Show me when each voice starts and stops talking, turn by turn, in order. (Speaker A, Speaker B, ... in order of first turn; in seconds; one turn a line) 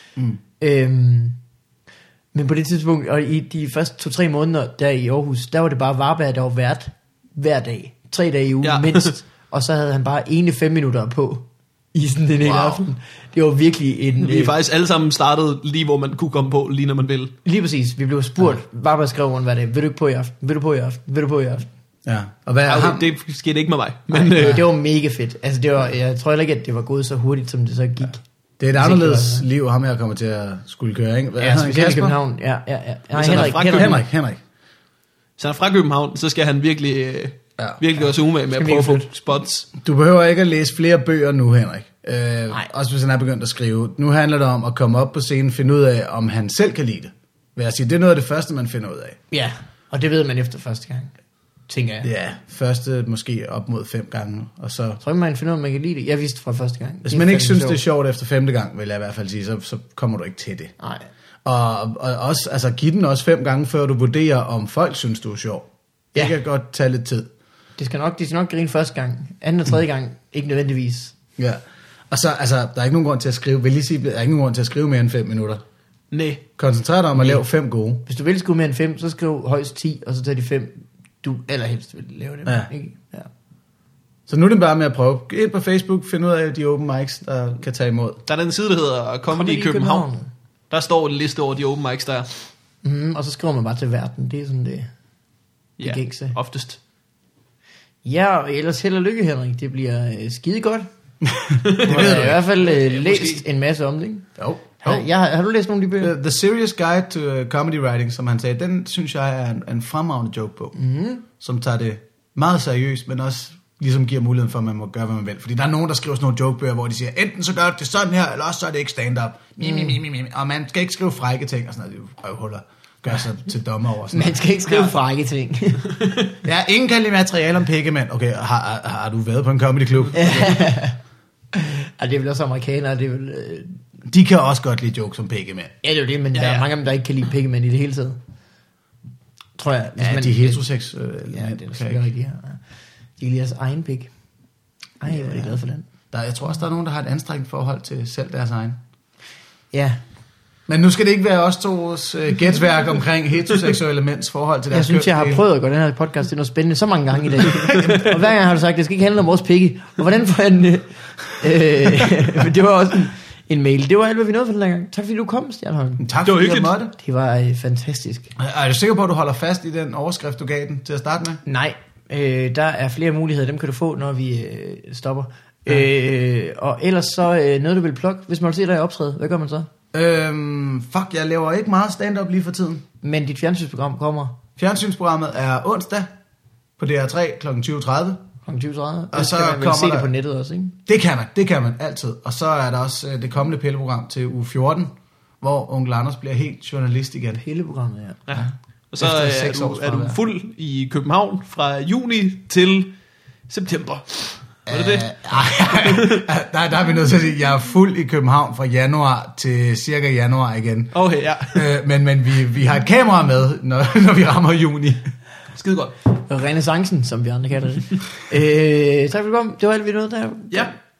Speaker A: 0.6-1.4
Speaker A: 2.3-14.5
Speaker B: 8.6-9.1
Speaker C: 12.4-12.8
Speaker B: 14.2-17.3
Speaker A: 17.4-21.7
Speaker C: 22.0-23.1
Speaker B: 22.7-24.6
Speaker A: 24.1-28.2
Speaker C: 28.6-32.2
Speaker A: 28.8-29.4
Speaker A: 31.4-34.0
Speaker B: 33.1-34.0
Speaker C: 33.2-34.4
Speaker B: 35.4-39.7
Speaker A: 38.5-39.1
Speaker C: 39.8-49.2
Speaker A: 49.3-51.1
Speaker A: 51.7-52.1
Speaker C: 52.0-55.0
Speaker A: 55.0-57.8
Speaker C: 57.0-60.7
Speaker A: 60.8-61.1
Speaker C: 61.4-67.3
Speaker A: 67.8-71.1
Speaker C: 71.4-75.6
Speaker B: 76.1-76.4
Speaker C: 76.6-78.0
Speaker A: 78.0-83.3
Speaker C: 84.3-88.2
Speaker B: 88.3-90.1
Speaker A: 89.3-90.3
Speaker B: 90.7-92.3
Speaker A: 92.8-94.9
Speaker B: 95.8-96.8
Speaker A: 95.8-96.3
Speaker A: 98.0-100.9
Speaker C: 101.2-102.4
Speaker B: 101.7-103.4
Speaker A: 101.8-104.3
Speaker C: 104.4-105.1
Speaker A: 104.8-106.1
Speaker C: 106.0-110.8
Speaker A: 110.8-111.2
Speaker C: 111.3-124.4
Speaker A: 124.1-125.9
Speaker C: 126.4-130.7
Speaker A: 130.1-131.0
Speaker A: 131.5-133.8
Speaker C: 134.1-135.7
Speaker A: 135.8-138.2
Speaker B: 136.3-136.7
Speaker A: 139.6-140.7
Speaker C: 140.0-142.0
Speaker A: 141.3-142.6
Speaker A: 143.2-144.1
Speaker A: 145.0-145.9
Speaker C: 145.1-145.6
Speaker C: 146.1-148.8
Speaker A: 149.7-150.0
Speaker C: 150.7-155.4
Speaker A: 154.7-166.1
Speaker C: 166.0-166.9
Speaker B: 166.2-166.7
Speaker A: 166.9-168.3
Speaker C: 168.4-171.4
Speaker A: 171.4-179.7
Speaker C: 179.9-182.8
Speaker A: 183.0-184.4
Speaker C: 184.6-186.1
Speaker C: 186.8-188.2
Speaker A: 188.4-190.8
Speaker C: 189.1-190.1
Speaker C: 190.8-197.4
Speaker A: 197.4-198.2
Speaker B: 198.3-202.9
Speaker C: 199.0-200.2
Speaker B: 203.5-205.2
Speaker C: 204.7-210.9
Speaker B: 205.7-206.2
Speaker B: 210.9-211.7
Speaker C: 211.5-215.0
Speaker B: 215.5-215.9
Speaker A: 216.2-220.8